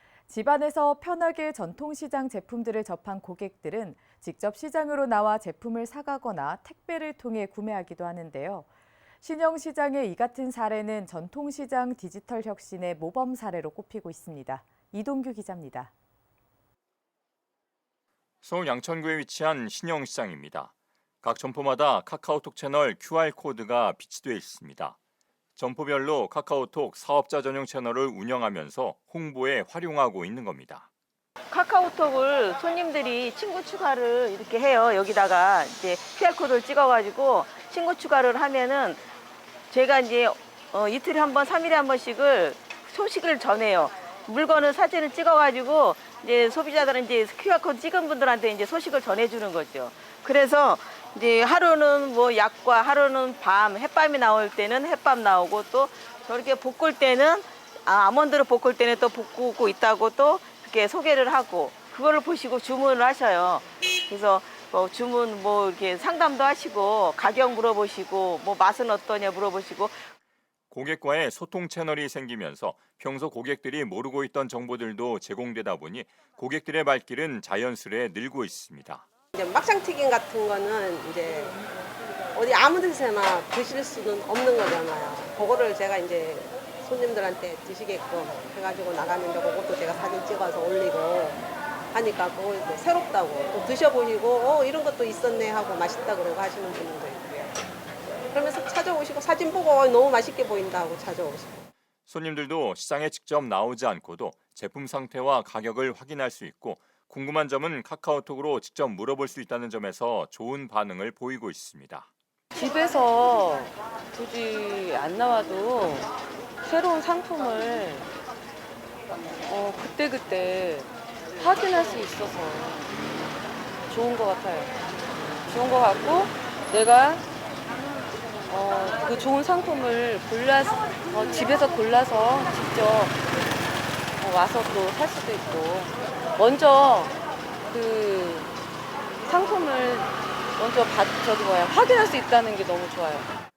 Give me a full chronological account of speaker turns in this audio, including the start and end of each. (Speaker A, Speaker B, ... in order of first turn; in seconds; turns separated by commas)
Speaker A: 0.3-8.7, Speaker A: 9.2-15.9, Speaker B: 18.4-25.0, Speaker B: 25.6-30.9, Speaker C: 31.5-39.0, Speaker C: 39.7-70.0, Speaker B: 70.7-79.0, Speaker D: 79.3-81.6, Speaker D: 82.3-97.5, Speaker D: 98.3-101.7, Speaker B: 102.1-112.1, Speaker E: 112.5-116.1, Speaker E: 116.6-118.1, Speaker E: 119.5-122.9, Speaker E: 123.9-124.7, Speaker E: 125.5-127.2, Speaker E: 128.5-133.1, Speaker E: 134.2-137.1, Speaker E: 137.7-138.5, Speaker E: 139.2-143.3